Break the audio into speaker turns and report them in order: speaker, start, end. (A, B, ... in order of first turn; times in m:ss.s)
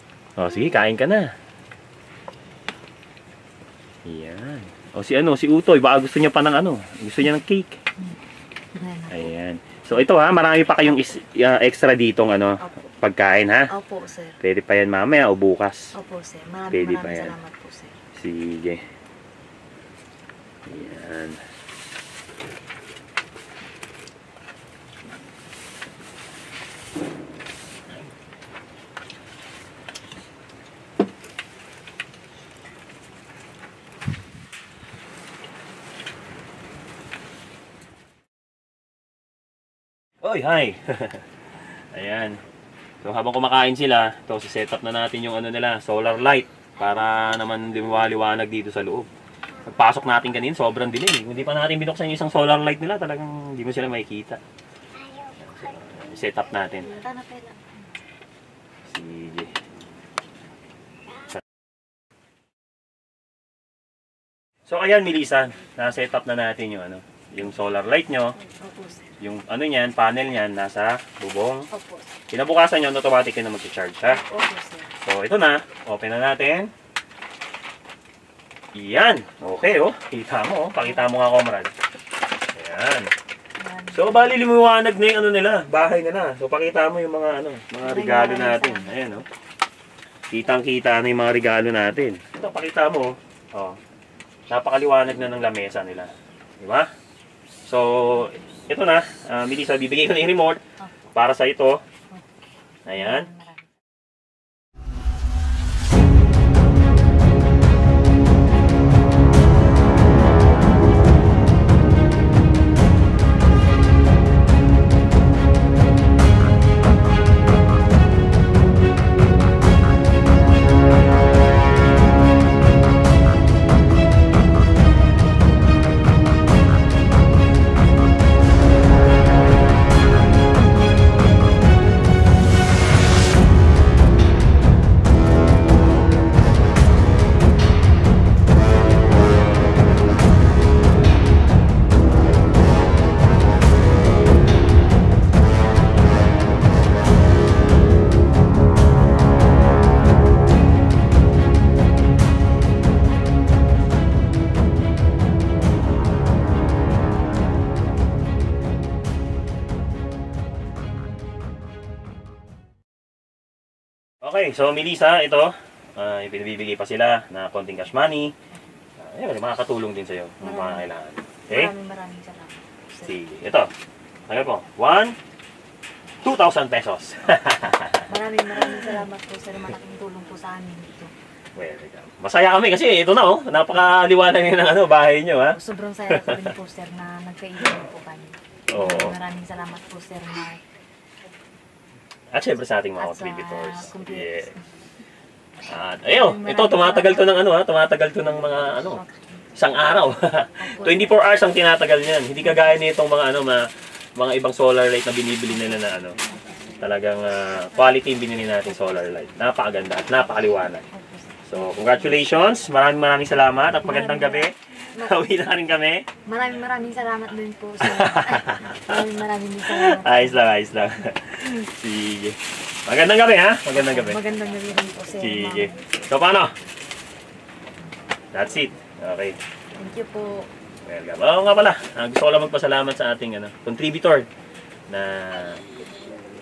0:00.4-0:01.3 A
0:04.1-0:07.8 A
0:08.8-0:09.3 B
0:09.1-0:13.7 A
0:13.7-0:14.4 B
0:14.4-0:15.9 A
0:16.0-0:18.0 B
0:16.7-0:17.4 A
0:18.2-0:18.8 A
0:20.6-0:21.4 A
0:40.2-0:41.2 A
0:41.9-0:42.4 A
0:43.0-0:49.1 A
0:49.6-0:54.4 A
0:55.4-0:56.9 A
0:56.8-0:57.8 B
0:58.9-0:59.6 A
1:04.7-1:08.4 A
1:08.6-1:09.2 B
1:09.2-1:11.7 A
1:11.7-1:12.2 B
1:12.3-1:14.2 A
1:14.1-1:14.9 B
1:15.0-1:16.7 A
1:18.7-1:21.7 A
1:22.5-1:23.1 A
1:23.6-1:24.3 B
1:23.9-1:29.3 A
1:27.8-1:29.0 B
1:30.3-1:33.8 A
1:34.5-1:36.9 A
1:37.7-1:40.6 A
1:41.2-1:41.8 A
1:42.9-1:43.3 A
1:43.0-1:43.7 B
2:44.2-2:48.3 A
2:49.0-2:51.7 A
2:50.4-2:50.9 B
2:51.5-2:53.2 B
2:53.0-2:53.7 A
2:54.3-2:55.2 A
2:56.2-2:58.1 A
2:58.1-3:01.1 B
3:01.6-3:05.6 A
3:05.5-3:10.6 B
3:06.1-3:06.5 A
3:08.7-3:09.2 A
3:12.3-3:14.5 A
3:13.0-3:14.6 B
3:15.7-3:19.0 A
3:16.1-3:17.4 B
3:18.9-3:19.5 B
3:19.6-3:26.2 A
3:20.6-3:21.3 B
3:25.7-3:26.9 B
3:26.8-3:30.9 A
3:28.7-3:29.2 B
3:30.9-3:32.2 B
3:31.5-3:36.1 A
3:33.8-3:35.2 B
3:36.3-3:40.5 B
3:37.8-3:39.0 A
3:39.7-3:44.2 A
3:43.7-3:45.8 B
3:45.2-3:46.5 A
3:48.3-3:49.4 A
3:49.8-3:50.5 B
3:50.8-3:54.3 A
3:54.9-3:55.6 A